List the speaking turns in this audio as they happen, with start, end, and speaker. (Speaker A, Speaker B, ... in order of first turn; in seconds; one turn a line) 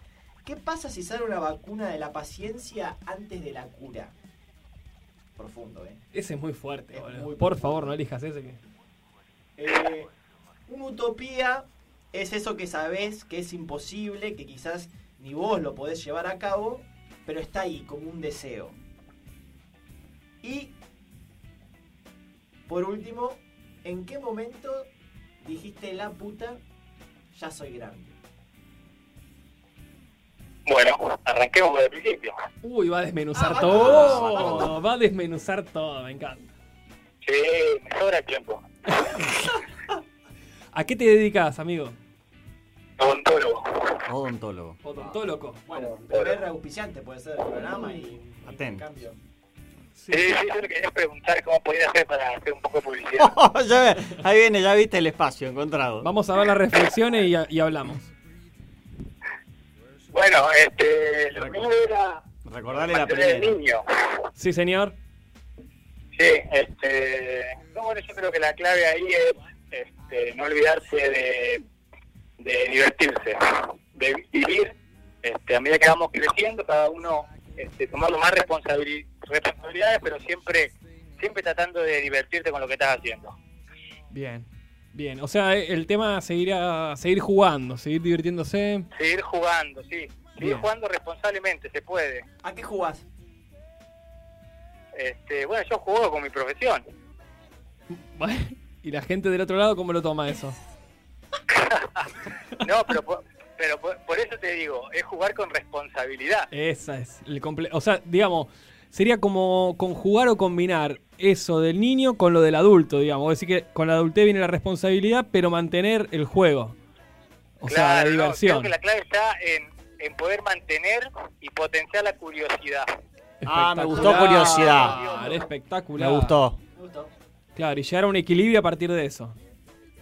Speaker A: 0.4-4.1
Speaker A: 5.4-6.0
Speaker B: 6.1-8.6
Speaker A: 6.9-8.0
Speaker A: 9.6-10.1
Speaker A: 10.7-18.8
Speaker A: 20.4-20.8
Speaker A: 22.7-24.9
Speaker A: 25.4-26.6
Speaker A: 27.3-28.1
Speaker C: 30.6-32.4
Speaker B: 32.6-36.5
Speaker A: 33.3-34.8
Speaker D: 33.7-34.7
Speaker C: 37.2-38.6
Speaker B: 38.9-39.6
Speaker B: 40.7-42.0
Speaker C: 43.0-44.0
Speaker D: 44.1-44.8
Speaker B: 44.8-45.6
Speaker A: 44.9-49.2
Speaker C: 45.7-46.4
Speaker D: 48.5-48.8
Speaker B: 50.0-50.3
Speaker C: 50.1-53.3
Speaker D: 53.2-56.1
Speaker B: 56.0-58.1
Speaker C: 60.1-63.8
Speaker D: 61.4-61.6
Speaker D: 62.4-63.5
Speaker B: 64.3-65.0
Speaker C: 66.1-71.6
Speaker C: 72.4-83.3
Speaker B: 84.1-88.9
Speaker C: 88.9-92.2
Speaker B: 90.3-90.7
Speaker A: 92.4-93.0
Speaker C: 94.9-96.8
Speaker B: 97.9-100.5
Speaker C: 101.5-102.1
Speaker C: 102.6-106.5
Speaker B: 106.5-116.8
Speaker B: 117.6-118.7
Speaker C: 117.7-122.9
Speaker B: 123.4-126.4
Speaker D: 123.5-125.0
Speaker A: 123.9-125.5
Speaker D: 126.0-126.6
Speaker A: 126.7-127.1
Speaker B: 127.5-129.3